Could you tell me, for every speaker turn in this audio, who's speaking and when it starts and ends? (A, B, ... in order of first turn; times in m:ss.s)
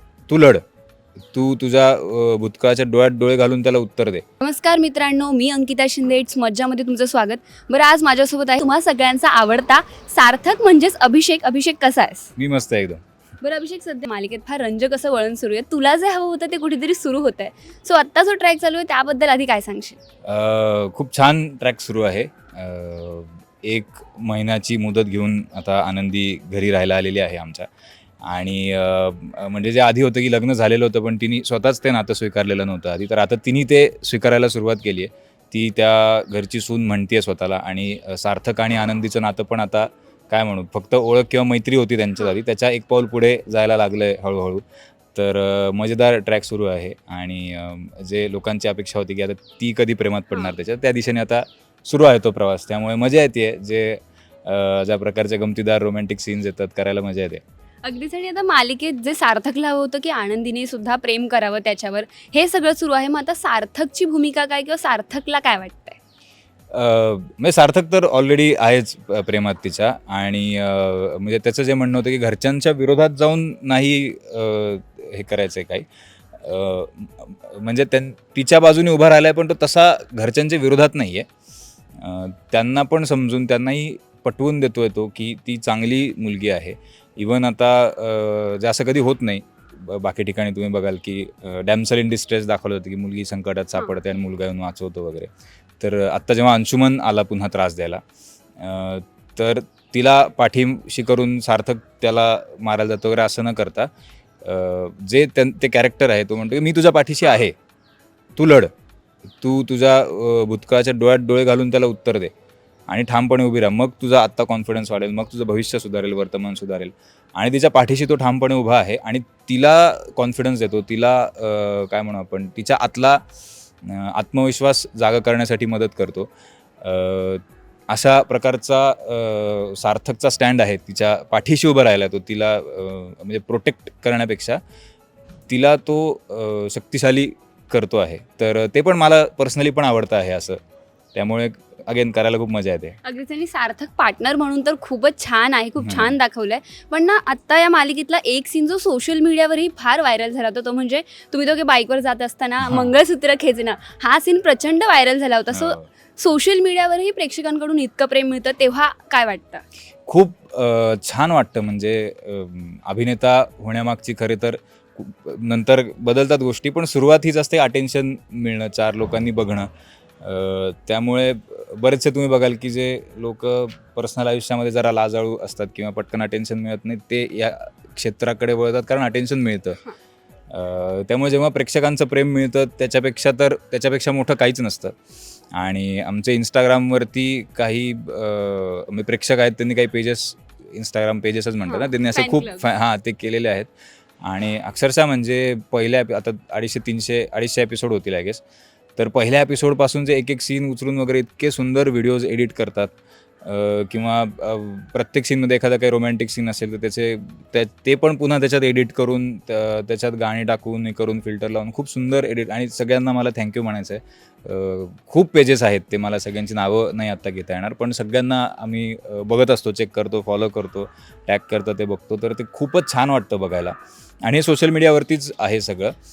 0:00.3-0:00.6 A
0:01.3-0:04.2 A
0:04.4-0:12.3 B
0:12.4-0:13.0 A
0:13.4-0:20.0 B
0:20.2-0:27.7 A
0:28.2-0:57.4 A
0:57.8-1:06.0 B
1:06.7-1:21.3 A
1:22.0-1:38.0 A
1:38.6-1:43.9 A
1:44.4-1:47.6 A
1:48.4-1:48.7 A
1:49.4-1:52.3 A
1:52.9-2:03.2 A
2:03.8-2:06.3 A
2:06.8-2:14.6 A
2:15.5-2:20.6 A
2:21.1-2:23.0 A
2:23.0-2:39.7 B
2:25.8-2:26.2 A
2:32.6-2:32.9 A
2:35.5-2:35.9 A
2:40.1-2:49.7 A
2:50.2-2:59.8 A
3:00.5-3:05.0 A
3:05.5-3:13.7 A
3:11.7-3:12.7 B
3:14.2-3:18.4 A
3:19.0-3:46.0 A